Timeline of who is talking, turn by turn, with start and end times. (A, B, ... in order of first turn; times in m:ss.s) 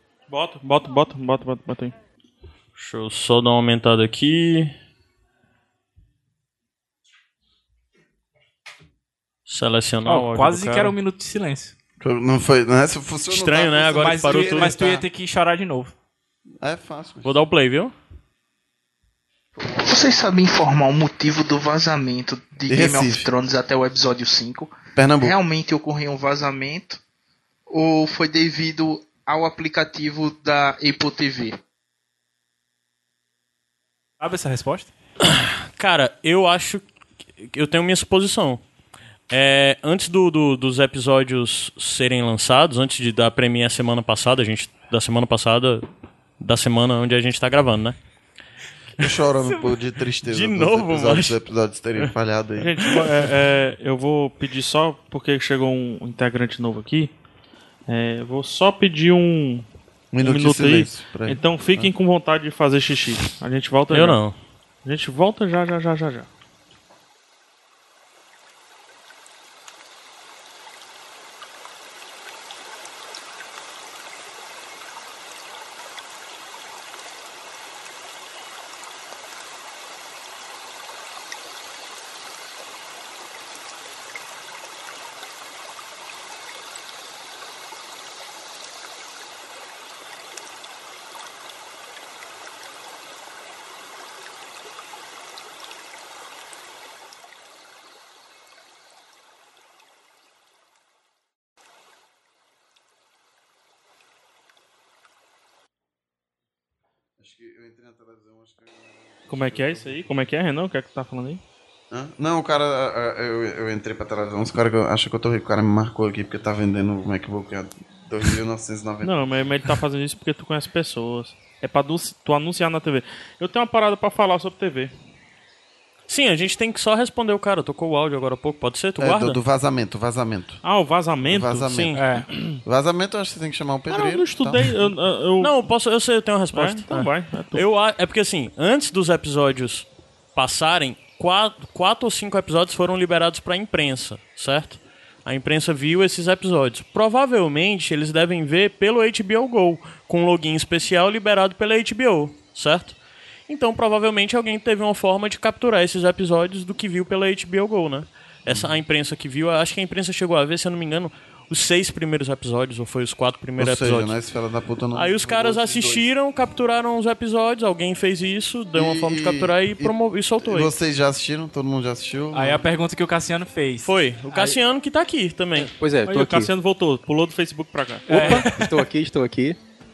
0:00.3-0:01.9 A
0:02.8-0:04.7 B
0:09.4-0:10.9 B
0:10.0-0:11.7 C
0:12.0-0:15.0 D
0:13.3-0:14.8 B
0:14.0-0:15.9 C
0:16.6-0:17.3 D
0:17.2-0:17.9 B
0:19.8-0:27.0 E
0:22.7-0:23.3 D
0:24.9-0:25.3 D
0:27.7-0:31.6 E
0:34.2-0:34.9 C
0:35.2-0:36.8 B
0:37.4-0:38.6 B
0:39.3-0:45.8 B
0:46.4-0:48.0 B
0:49.0-0:52.7 D
0:50.2-0:51.4 B
0:52.6-0:57.1 A
0:57.9-0:59.6 A
1:00.1-1:01.9 D
1:00.2-1:04.2 A
1:03.9-1:04.3 B
1:04.8-1:06.3 A
1:47.2-1:50.0 D
1:49.3-1:51.4 A
1:51.9-1:59.1 D
1:59.0-2:04.9 A
2:06.1-2:09.4 B
2:09.0-2:10.6 D
2:10.6-2:11.7 A
2:11.3-2:12.0 D
2:11.7-2:12.0 B
2:11.9-2:12.2 C
2:12.3-2:12.6 A
2:12.6-2:14.7 D
2:13.9-2:15.6 A
2:15.4-2:33.0 B
2:16.5-2:17.6 A
2:33.5-2:44.2 B
2:38.5-2:38.8 D
2:43.6-2:46.0 D
2:44.9-2:50.7 B
2:48.7-2:52.6 D
2:52.3-2:54.6 C
2:53.8-2:55.7 B
2:55.6-2:56.5 F
2:56.1-2:58.4 A
2:58.1-2:58.5 C
2:58.1-2:59.6 F